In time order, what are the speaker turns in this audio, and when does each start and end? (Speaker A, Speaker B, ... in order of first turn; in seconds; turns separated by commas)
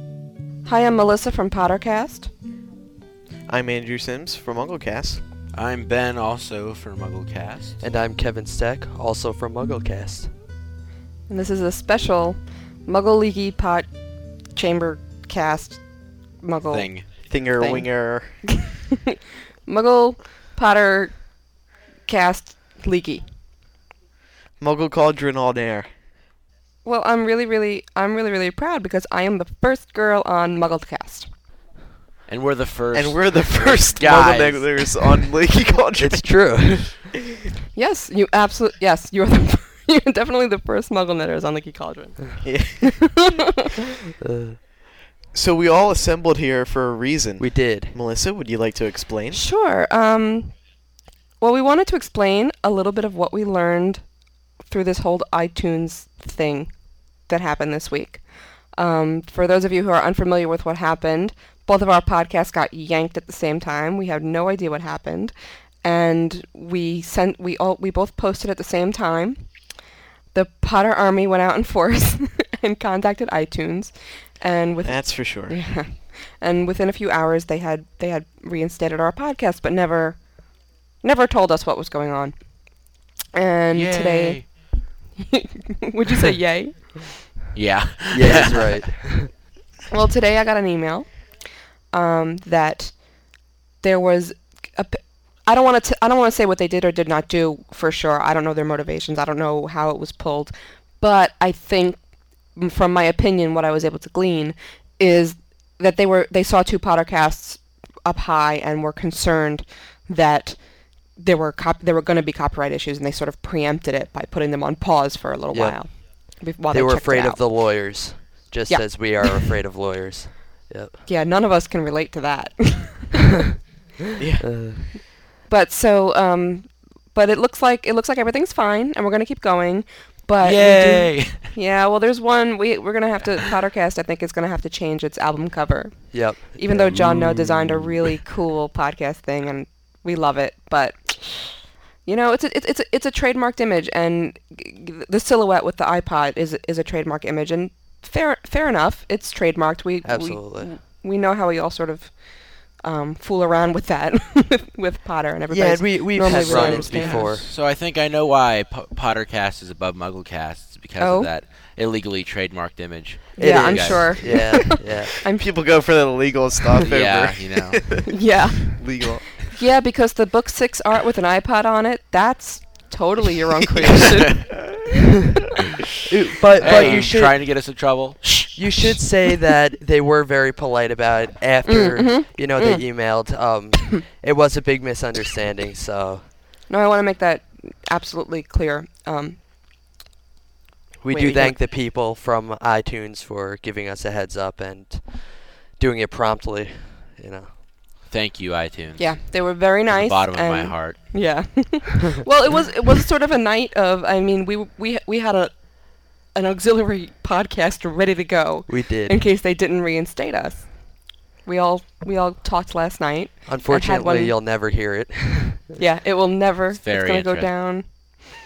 Speaker A: 0.6-2.3, Speaker B: 3.5-5.2, Speaker C: 5.5-7.8, Speaker D: 7.8-10.3, Speaker A: 11.3-13.9, Speaker A: 14.5-18.4, Speaker C: 16.7-17.1, Speaker B: 17.2-18.4, Speaker A: 19.6-21.5, Speaker A: 22.1-23.2, Speaker B: 24.6-25.9, Speaker A: 26.8-31.3, Speaker C: 32.3-35.3, Speaker B: 32.9-36.9, Speaker D: 36.0-37.1, Speaker A: 37.7-43.3, Speaker B: 42.4-43.0, Speaker D: 44.2-44.6, Speaker B: 45.3-49.4, Speaker D: 47.4-48.0, Speaker A: 49.3-50.6, Speaker A: 51.4-54.1, Speaker A: 54.6-69.7, Speaker A: 70.3-87.3, Speaker B: 74.8-75.6, Speaker C: 83.7-84.5, Speaker C: 87.5-88.7, Speaker D: 88.1-89.3, Speaker A: 89.9-102.0, Speaker A: 102.5-117.5, Speaker D: 115.5-120.9, Speaker A: 118.7-119.5, Speaker A: 121.0-123.3, Speaker B: 124.2-124.5, Speaker D: 124.4-124.8, Speaker A: 125.4-157.3, Speaker C: 130.4-131.5, Speaker D: 136.1-136.8, Speaker B: 136.7-137.9, Speaker D: 150.0-150.7, Speaker D: 155.5-157.5, Speaker C: 156.2-164.5, Speaker A: 161.0-161.3, Speaker A: 163.3-165.7, Speaker D: 163.4-165.2, Speaker B: 165.4-168.1, Speaker C: 166.8-167.8, Speaker A: 168.1-174.6, Speaker B: 168.7-169.5, Speaker D: 176.1-177.4, Speaker C: 176.6-178.4, Speaker B: 176.6-177.1, Speaker D: 178.5-186.2, Speaker A: 181.6-182.9, Speaker A: 186.7-189.4, Speaker D: 191.0-197.5, Speaker A: 191.1-191.6, Speaker C: 198.1-201.0, Speaker A: 199.0-214.3, Speaker D: 208.7-209.3, Speaker D: 213.4-215.7, Speaker A: 215.8-218.1, Speaker C: 216.7-217.5